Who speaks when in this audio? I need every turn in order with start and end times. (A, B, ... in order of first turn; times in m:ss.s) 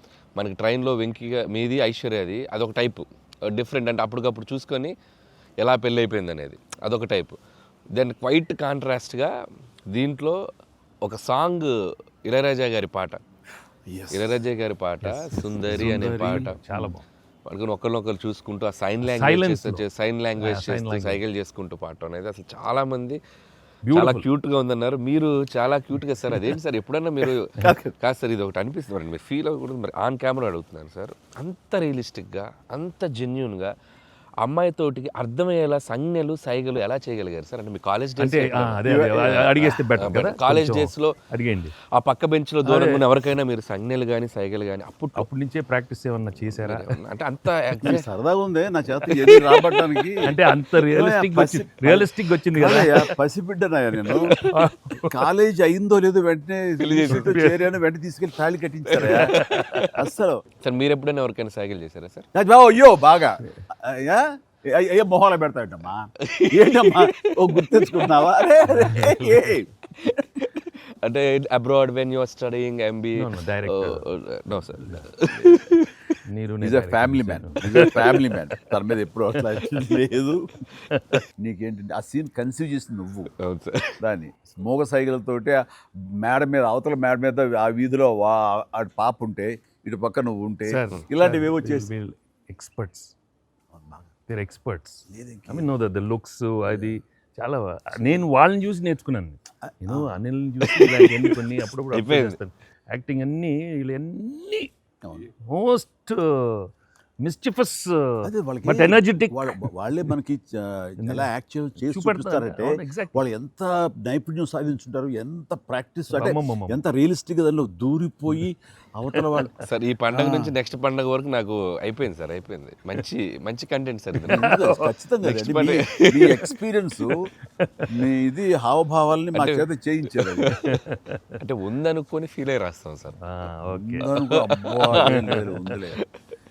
0:00.4-0:04.9 A
0:05.6-0:07.4 A
0:07.9-0:09.3 A
0:09.9-0:10.4 A
0:11.0-0:11.7 A
0:12.2-0:13.2 A
0:13.9-0:14.4 B
0:14.1-0:16.9 A
0:15.0-0:17.0 C
0:15.4-0:16.0 B
0:17.5-0:23.2 A
0:19.0-0:19.8 C
0:20.4-0:21.2 C
0:23.9-0:24.2 C
0:23.9-0:27.4 A
0:27.6-0:27.9 B
0:28.0-0:33.7 A
0:34.4-0:38.9 A
0:38.2-0:41.7 C
0:38.8-0:39.8 B
0:40.0-0:41.1 A
0:42.0-0:45.2 A
0:42.6-0:42.9 C
0:45.2-0:46.9 C
0:46.4-0:48.0 A
0:47.8-0:50.3 B
0:49.1-0:49.8 A
0:50.2-0:53.2 C
0:50.8-0:54.3 B
0:54.2-0:54.5 A
0:54.4-0:55.2 C
0:55.1-0:59.4 B
0:56.8-0:57.4 A
0:57.1-0:57.7 C
0:58.9-0:59.9 A
0:59.0-0:59.8 C
0:59.9-1:00.4 B
1:00.6-1:02.2 A
1:02.3-1:10.2 B
1:06.2-1:09.1 A
1:08.8-1:09.4 C
1:10.4-1:16.0 A
1:13.2-1:15.2 C
1:16.3-1:18.2 C
1:16.6-1:20.4 B
1:20.9-1:21.2 C
1:21.4-1:23.3 B
1:23.4-1:24.0 A
1:24.0-1:25.6 B
1:26.2-1:31.9 B
1:30.7-1:33.1 C
1:33.7-1:34.1 B
1:34.3-1:44.7 C
1:35.1-1:35.7 B
1:36.6-1:37.0 B
1:38.0-1:38.2 B
1:39.6-1:40.1 B
1:40.8-1:41.0 A
1:41.9-1:42.4 A
1:45.0-1:45.3 B
1:45.5-1:46.7 C
1:47.2-1:49.7 C
1:48.2-1:59.5 B
1:51.0-1:53.2 C
1:56.1-1:56.8 C
1:59.1-1:59.5 C
1:59.6-2:04.5 A
2:00.1-2:00.5 B
2:04.3-2:07.3 B
2:04.3-2:04.9 C
2:05.2-2:06.4 A
2:07.6-2:07.9 C
2:07.9-2:10.5 B
2:09.4-2:10.6 A
2:10.6-2:11.2 C
2:11.4-2:13.2 A
2:13.2-2:14.1 C
2:13.7-2:16.0 B
2:15.0-2:15.5 C
2:15.0-2:15.5 A